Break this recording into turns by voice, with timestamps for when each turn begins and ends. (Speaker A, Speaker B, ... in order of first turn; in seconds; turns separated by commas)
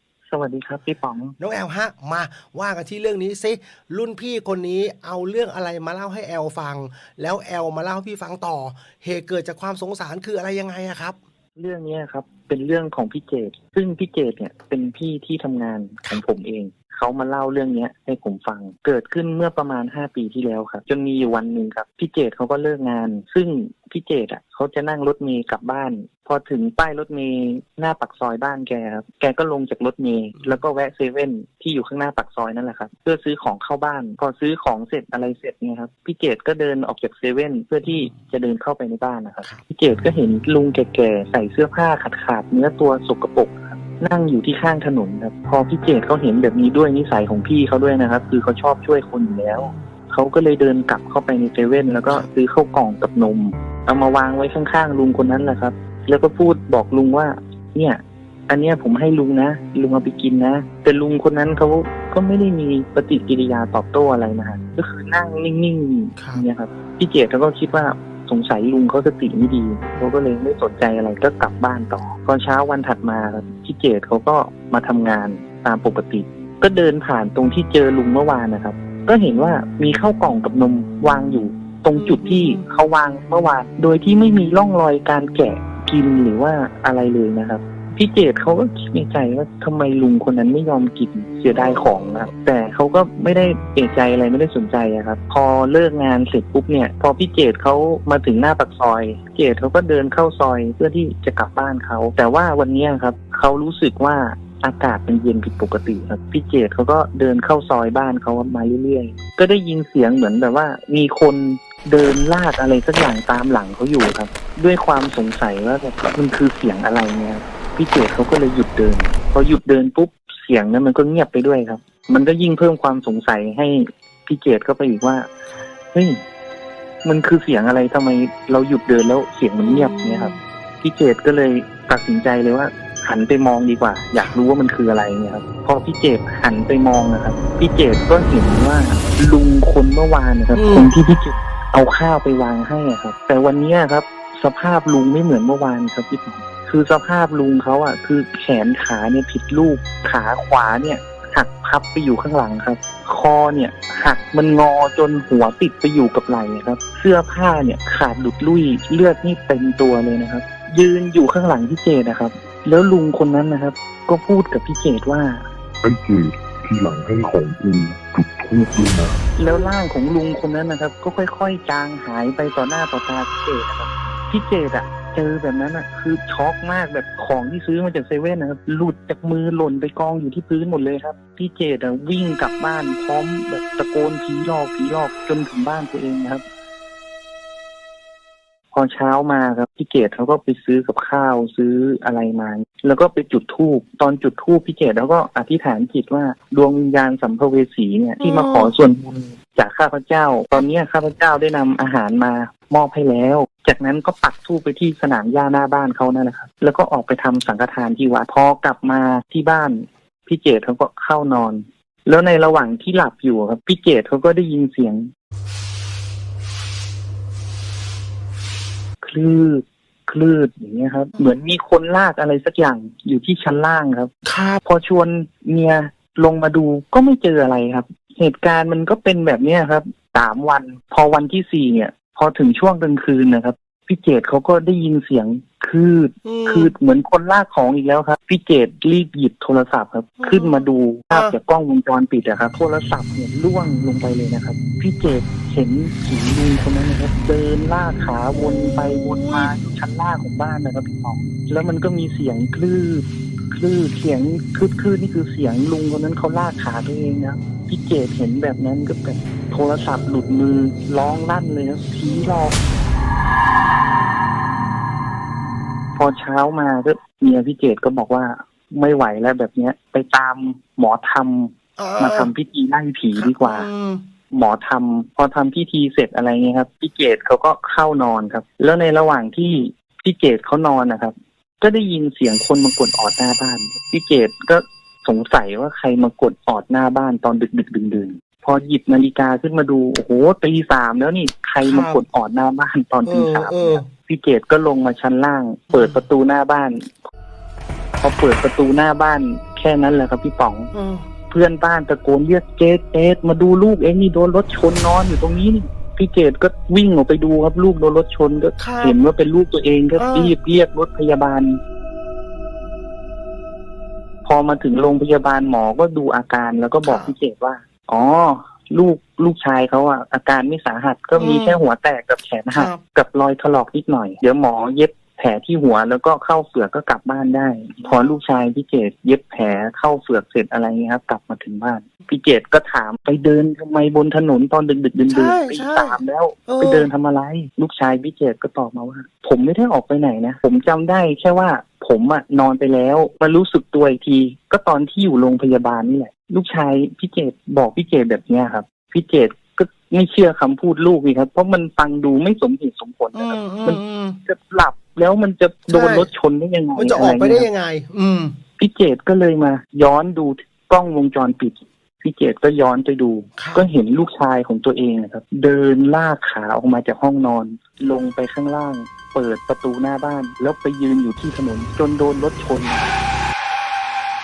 Speaker A: 0.3-1.3, Speaker B: 1.4-11.2, Speaker A: 11.6-125.3, Speaker B: 30.4-30.6, Speaker B: 37.8-38.2, Speaker B: 49.5-49.9, Speaker B: 66.2-66.4, Speaker B: 81.9-82.6, Speaker B: 91.5-92.1, Speaker A: 125.9-126.2, Speaker A: 127.0-130.3, Speaker B: 129.6-130.4, Speaker A: 130.8-165.4, Speaker B: 140.5-140.9, Speaker C: 165.8-169.1, Speaker A: 169.4-186.4, Speaker A: 188.7-215.1, Speaker B: 198.2-198.7, Speaker A: 219.0-224.1, Speaker B: 224.2-224.6, Speaker A: 224.6-262.6, Speaker B: 236.2-236.7, Speaker B: 240.2-241.3, Speaker B: 248.7-249.5, Speaker A: 265.9-273.7, Speaker B: 271.8-272.3, Speaker B: 273.1-274.0, Speaker A: 274.3-297.0, Speaker B: 291.6-292.0, Speaker B: 293.0-293.9, Speaker B: 295.7-296.1, Speaker A: 298.0-300.7, Speaker B: 300.7-301.1, Speaker A: 301.3-311.6, Speaker B: 308.6-308.9, Speaker B: 309.9-310.4, Speaker A: 314.2-357.5, Speaker B: 316.8-317.1, Speaker B: 321.1-321.6, Speaker B: 322.5-322.8, Speaker B: 327.8-328.2, Speaker B: 335.1-336.9, Speaker B: 353.1-354.2, Speaker B: 355.7-356.1, Speaker B: 356.8-358.4, Speaker A: 358.6-372.9, Speaker B: 363.4-363.7